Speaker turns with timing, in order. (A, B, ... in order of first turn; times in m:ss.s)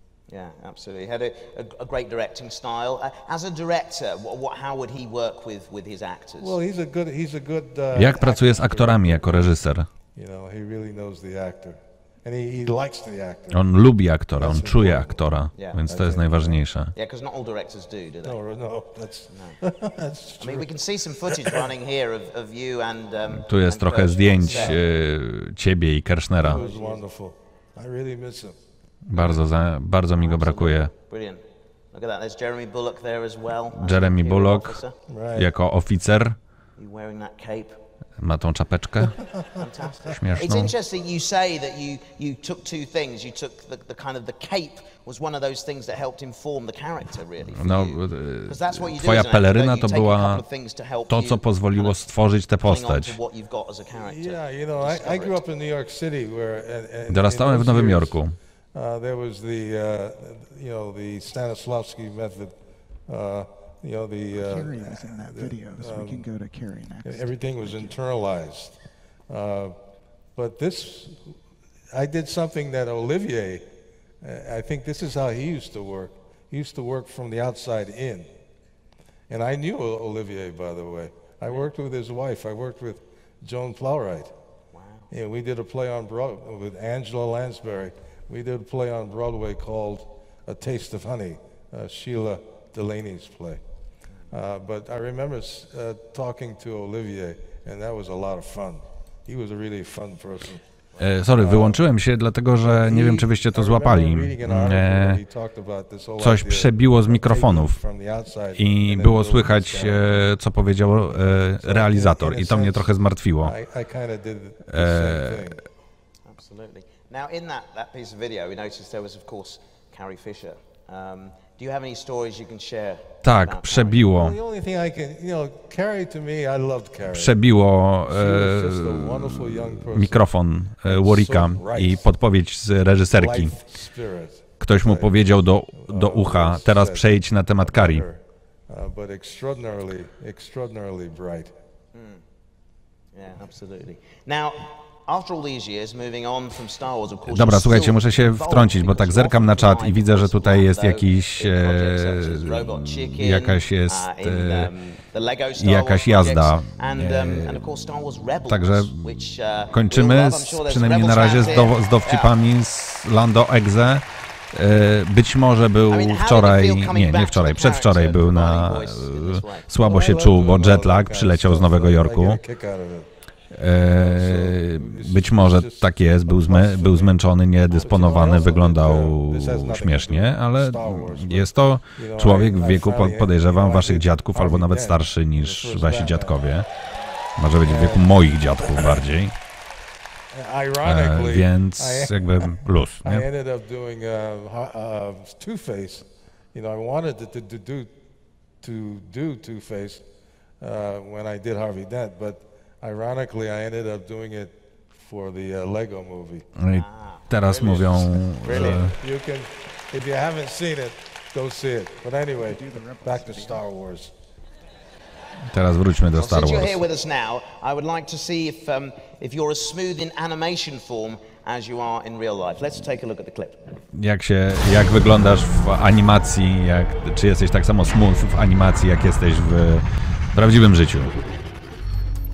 0:00.3-0:06.6 A
0:06.4-0:09.6 B
0:07.9-0:09.9 C
0:10.1-0:13.6 B
0:13.5-0:16.9 C
0:14.3-0:15.2 B
0:15.5-0:15.8 A
0:15.9-0:16.6 B
0:16.9-0:18.4 A
0:18.2-0:20.7 B
0:19.3-0:19.6 A
0:20.4-0:24.8 A
0:23.3-0:26.6 C
0:24.5-0:24.8 B
0:26.4-0:28.6 B
0:26.4-0:27.0 A
0:29.1-0:30.9 C
0:29.2-0:29.4 A
0:30.2-0:35.0 A
0:33.8-0:34.8 C
0:35.1-0:35.5 B
0:35.3-0:36.4 C
0:36.8-0:37.8 A
0:38.2-0:39.2 C
0:39.6-0:52.0 A
0:40.1-0:40.7 C
0:47.5-0:50.4 C
0:51.1-0:53.2 C
0:52.6-0:55.4 A
0:53.9-0:58.2 B
0:57.1-0:58.4 C
0:58.7-1:02.6 B
1:03.1-1:06.3 B
1:04.3-1:08.0 D
1:07.0-1:08.8 B
1:09.3-1:09.8 B
1:10.3-1:11.3 B
1:11.9-1:13.7 B
1:14.2-1:18.3 B
1:19.3-1:24.3 B
1:24.7-1:25.1 A
1:25.1-1:33.6 B
1:34.3-1:40.6 B
1:41.0-1:45.2 C
1:41.3-1:41.8 B
1:42.6-1:50.3 B
1:46.2-1:47.8 C
1:48.5-1:53.5 C
1:51.0-1:55.6 B
1:54.7-1:55.5 C
1:56.2-2:04.0 A
2:03.2-2:04.4 C
2:04.1-2:07.4 B
2:07.1-2:13.5 C
2:08.1-2:10.3 B
2:10.8-2:12.0 B
2:13.1-2:21.5 B
2:14.6-2:18.0 C
2:21.9-2:22.2 A
2:23.1-2:42.3 A
2:27.3-2:34.7 C
2:35.6-2:37.6 C
2:38.5-2:52.4 C
2:45.9-2:49.7 A
2:49.8-2:53.1 B
2:53.5-3:06.6 C
2:53.8-3:06.4 B
2:57.7-2:58.1 A
3:07.4-3:09.3 C
3:07.6-3:09.0 B
3:10.3-3:17.9 B
3:10.8-3:13.2 C
3:18.6-3:20.0 B
3:20.6-3:26.5 B
3:26.6-3:28.9 C
3:26.7-3:28.8 A
3:28.4-3:34.1 B
3:32.3-3:33.7 D
3:35.5-3:36.8 C
3:36.2-3:43.6 A
3:43.9-3:51.1 C